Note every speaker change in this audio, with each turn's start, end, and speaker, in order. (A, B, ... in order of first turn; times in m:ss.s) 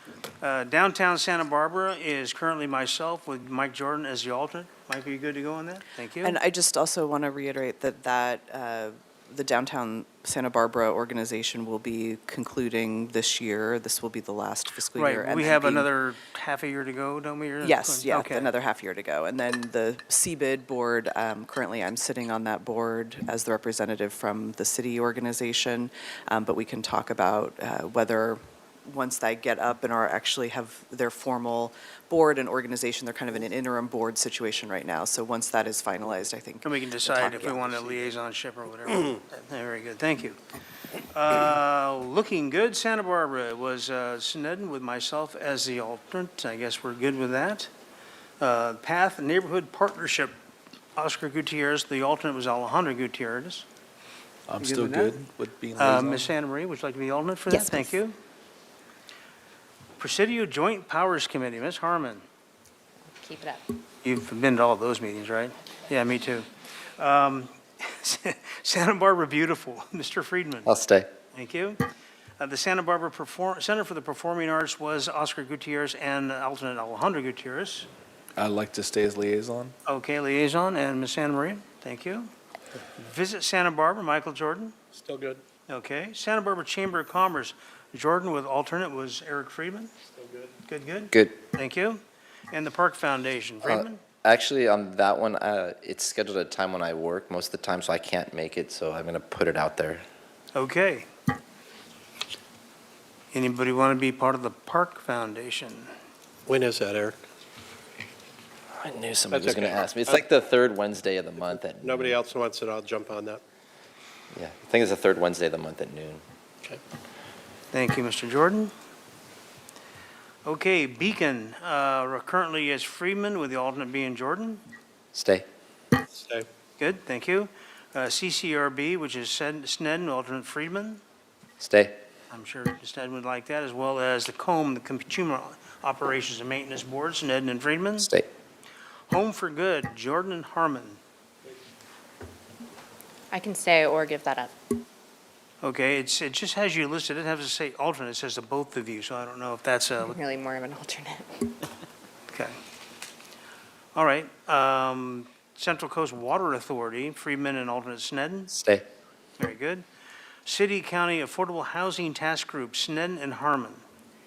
0:00.4-0:06.4 A
0:06.2-0:15.9 B
0:15.0-0:18.5 A
0:17.6-0:38.0 B
0:36.6-0:40.4 A
0:41.0-0:47.7 A
0:48.4-0:50.3 A
0:51.0-0:53.6 A
0:54.5-0:56.3 C
0:54.6-0:55.2 A
0:55.8-0:58.1 A
1:00.0-1:02.2 A
1:03.1-1:03.6 D
1:04.0-1:06.5 A
1:07.0-1:10.7 A
1:10.6-1:11.1 E
1:11.3-1:11.8 A
1:12.4-1:17.9 A
1:18.4-1:19.7 C
1:19.9-1:22.3 A
1:23.0-1:24.7 A
1:24.9-1:25.4 F
1:25.7-1:29.9 A
1:30.2-1:30.5 F
1:30.7-1:34.0 A
1:33.6-1:40.0 E
1:40.5-1:41.1 A
1:43.3-1:45.9 A
1:46.5-1:47.2 F
1:48.8-1:52.2 E
1:49.3-1:50.2 F
1:51.8-1:53.4 F
1:54.3-1:56.2 E
1:57.7-1:58.7 A
2:00.4-2:04.6 A
2:05.1-2:05.4 E
2:06.1-2:06.4 F
2:06.8-2:11.0 A
2:11.6-2:11.9 E
2:12.3-2:18.1 A
2:18.0-2:18.2 E
2:19.1-2:21.0 A
2:23.3-2:24.5 D
2:25.6-2:30.2 A
2:30.0-2:31.6 D
2:32.3-2:32.6 A
2:33.9-2:38.5 A
2:38.5-2:38.8 E
2:39.4-2:39.8 A
2:40.4-2:43.8 A